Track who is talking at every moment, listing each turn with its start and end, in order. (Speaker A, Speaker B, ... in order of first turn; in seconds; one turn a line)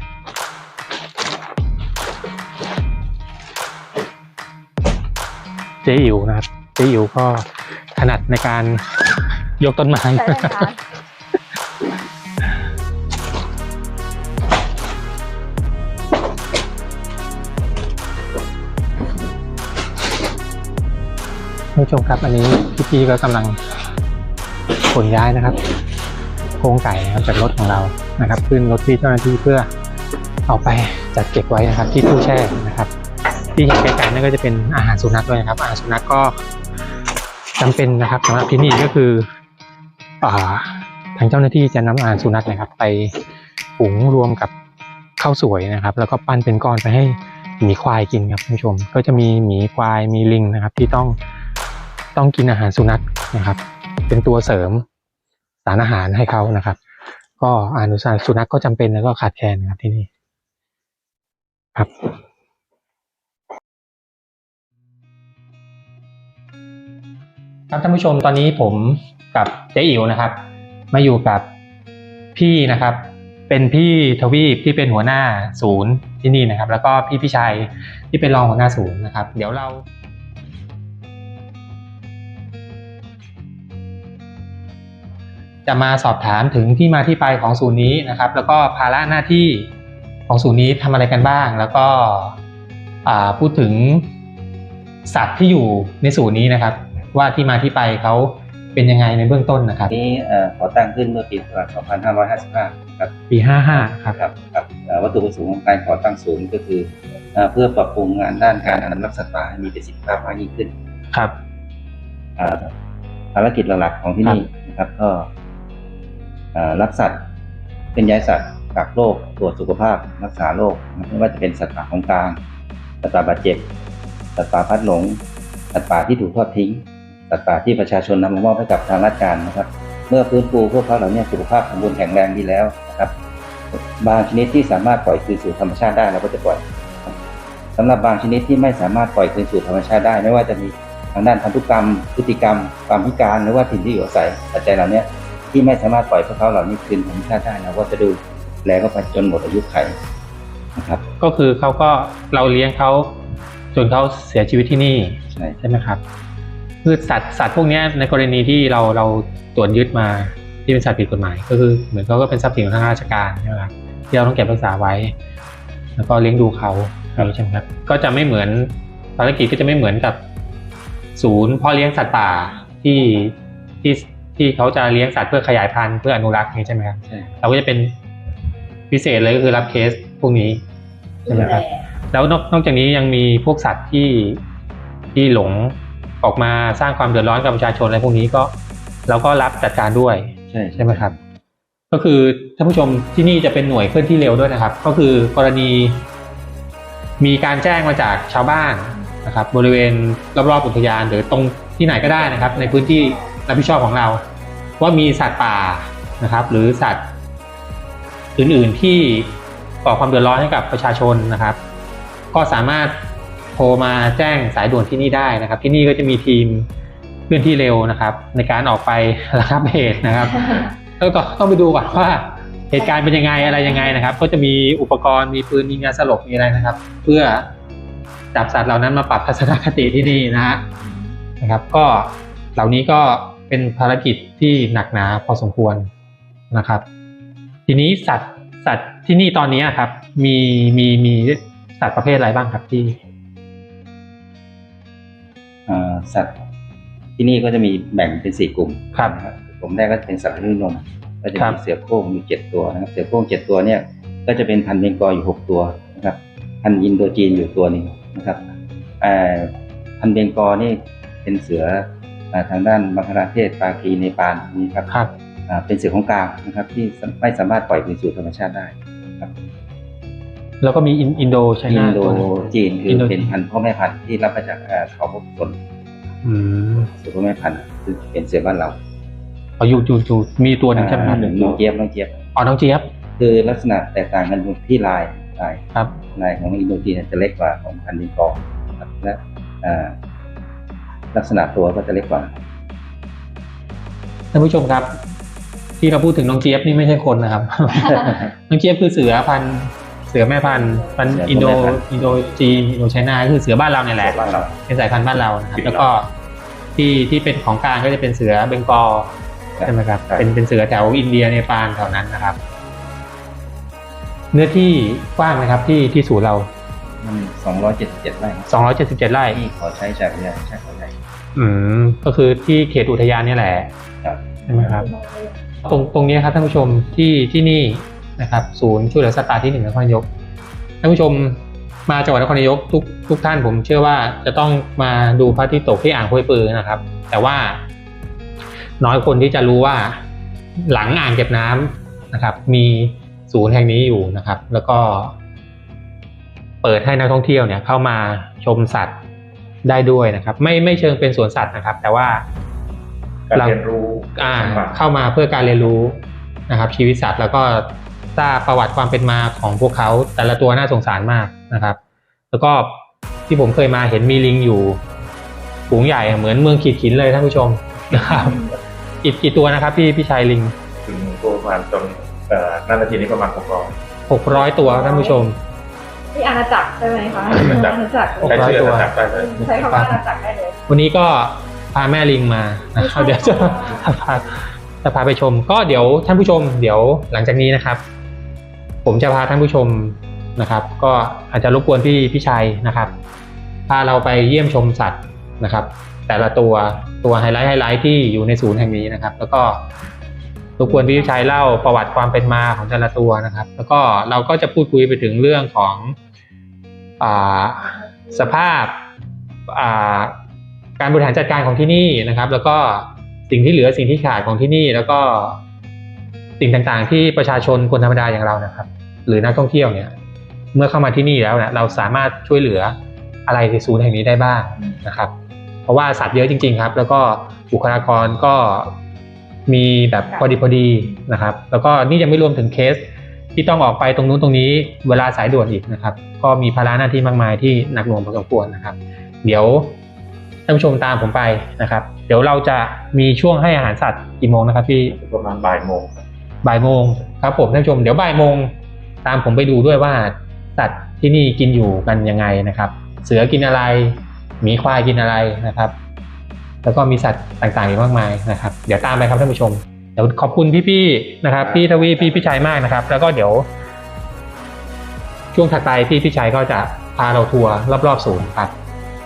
Speaker A: 5.8-9.0
Speaker A: 9.6-10.7
Speaker B: 10.2-10.8
Speaker A: 21.8-23.6
Speaker A: 24.8-25.6
Speaker A: 26.6-29.7
Speaker A: 30.5-32.9
Speaker A: 33.5-36.4
Speaker A: 37.6-39.3
Speaker A: 40.2-43.1
Speaker A: 43.8-44.5
Speaker A: 45.2-51.2
Speaker A: 52.1-54.9
Speaker A: 55.6-56.8
Speaker A: 57.4-60.1
Speaker A: 61.8-62.1
Speaker A: 67.7-70.4
Speaker A: 70.9-71.5
Speaker A: 72.3-79.9
Speaker A: 85.7-89.7
Speaker A: 90.3-92.4
Speaker A: 93.0-94.1
Speaker A: 95.1-99.9
Speaker C: 99.9-103.1
Speaker A: 103.3-104.2
Speaker C: 104.1-110.7
Speaker C: 112.4-112.7
Speaker C: 113.3-115.3
Speaker C: 116.5-117.2
Speaker C: 118.0-122.4
Speaker C: 123.0-123.7
Speaker C: 124.4-125.2
Speaker C: 125.7-133.1
Speaker C: 133.8-137.2
Speaker C: 137.8-150.0
Speaker C: 150.8-151.1
Speaker A: 151.2-153.2
Speaker A: 153.7-156.0
Speaker C: 155.3-155.6
Speaker A: 156.8-165.2
Speaker A: 166.0-170.2
Speaker A: 171.2-177.9
Speaker C: 177.1-177.3
Speaker A: 178.9-180.6
Speaker B: 181.3-181.8
Speaker A: 181.3-184.4
Speaker A: 185.2-188.5
Speaker A: 189.1-191.1
Speaker C: 190.5-191.2
Speaker A: 191.9-196.1
Speaker A: 197.2-204.2
Speaker B: 202.8-203.2
Speaker A: 204.8-207.1
Speaker A: 208.4-211.6
Speaker A: 212.3-213.0
Speaker A: 213.6-216.7
Speaker A: 217.3-227.5
Speaker A: 228.3-230.7
Speaker A: 231.4-235.9
Speaker A: 236.5-236.8
Speaker A: 237.7-243.0
Speaker C: 245.7-246.4
Speaker C: 247.2-258.5
Speaker C: 259.0-264.9
Speaker C: 265.5-269.3
Speaker A: 270.6-272.3
Speaker C: 271.7-275.6
Speaker A: 272.9-273.3
Speaker A: 276.2-276.9
Speaker C: 277.0-278.8
Speaker A: 279.6-281.3
Speaker C: 280.7-282.2
Speaker D: 281.1-281.5
Speaker A: 282.4-282.9
Speaker C: 283.2-285.6
Speaker C: 286.1-290.0
Speaker C: 291.1-292.3
Speaker A: 294.3-295.0
Speaker A: 295.8-306.1
Speaker C: 300.9-301.9
Speaker C: 304.0-304.5
Speaker A: 306.8-309.1
Speaker C: 309.6-310.3
Speaker A: 309.6-312.4
Speaker A: 314.3-316.5
Speaker C: 317.0-318.5
Speaker A: 318.5-319.4
Speaker C: 319.3-320.9
Speaker A: 321.4-323.7
Speaker C: 324.0-324.8
Speaker A: 324.5-324.9
Speaker A: 325.6-330.1
Speaker A: 330.8-337.6
Speaker A: 338.8-340.0
Speaker A: 340.6-345.1
Speaker A: 346.6-349.0
Speaker A: 349.6-352.3
Speaker D: 353.3-354.8
Speaker A: 353.3-353.6
Speaker A: 354.2-361.8
Speaker A: 362.3-364.8
Speaker A: 365.7-368.5
Speaker A: 369.0-370.6
Speaker D: 370.9-373.8
Speaker A: 374.1-375.4
Speaker B: 374.3-375.2
Speaker B: 376.1-378.5
Speaker D: 377.4-380.0
Speaker A: 378.2-378.9
Speaker B: 379.1-380.6
Speaker A: 379.5-380.0
Speaker A: 380.7-387.8
Speaker B: 382.8-383.8
Speaker A: 388.9-392.9
Speaker A: 393.7-399.7
Speaker A: 400.6-406.0
Speaker A: 407.0-408.8
Speaker A: 409.5-410.2
Speaker A: 410.8-415.4
Speaker A: 416.4-419.9
Speaker A: 420.5-425.1
Speaker A: 425.7-428.8
Speaker A: 429.5-439.8
Speaker A: 440.5-445.0
Speaker D: 444.9-446.0
Speaker A: 446.4-455.8
Speaker A: 456.6-463.5
Speaker C: 461.4-461.7
Speaker A: 465.3-468.5